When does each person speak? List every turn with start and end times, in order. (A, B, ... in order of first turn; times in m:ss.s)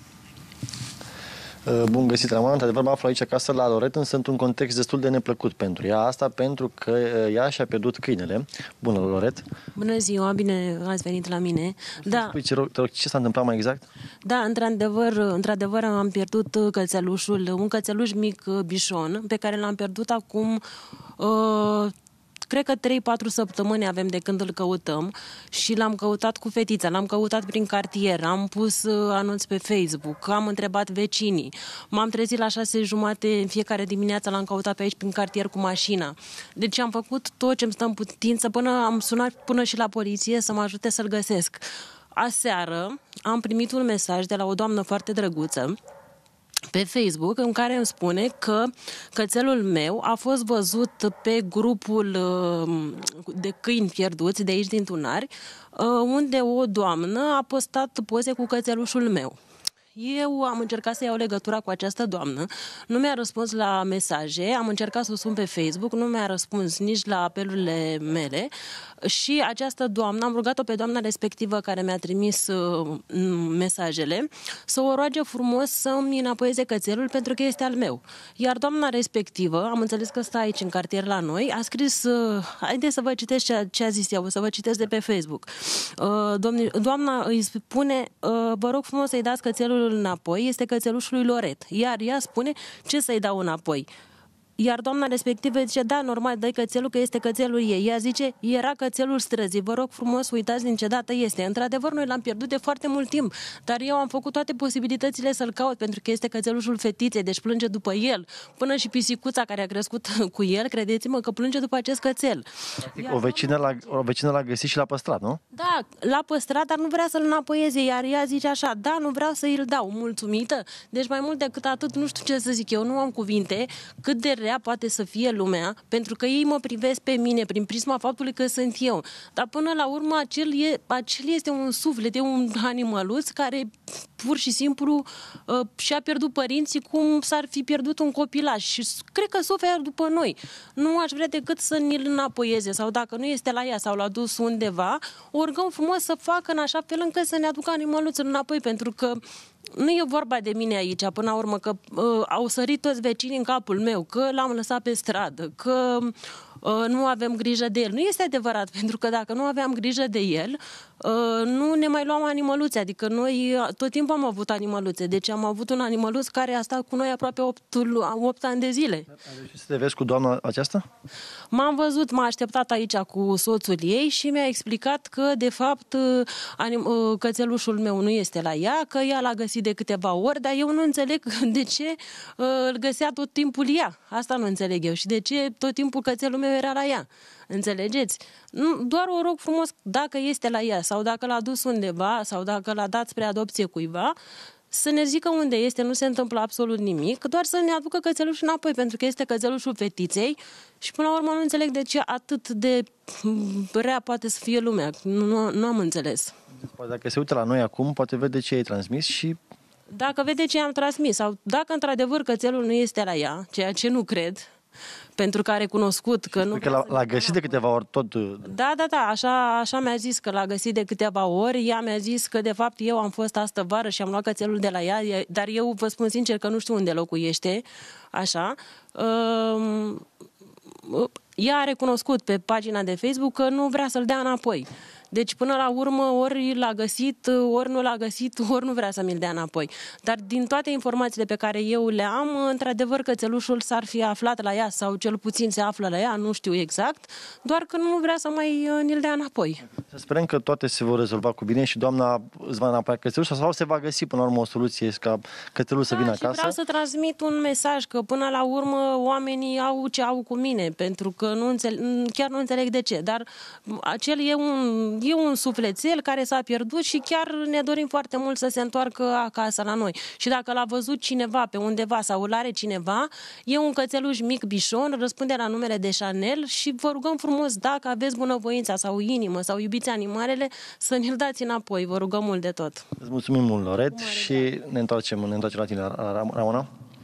0:01.6-0:09.4 A
0:09.7-0:12.3 B
0:12.0-0:13.8 A
0:14.2-0:20.6 B
0:21.2-0:21.9 B
0:22.5-0:45.8 B
0:46.7-0:59.4 B
0:59.9-1:08.5 B
1:09.0-1:33.9 B
1:34.6-1:53.3 B
1:52.8-1:55.4 A
1:55.5-2:49.1 B
2:49.2-2:50.8 A
2:51.5-3:14.1 B
3:14.7-3:26.3 B
3:26.6-3:29.4 A
3:29.9-3:34.5 B
3:35.2-3:37.6 B
3:36.4-3:38.5 A
3:38.4-3:50.0 B
3:50.8-4:09.6 B
4:09.9-4:16.6 A
4:15.9-4:42.9 B
4:43.0-4:46.7 A
4:43.9-4:44.5 B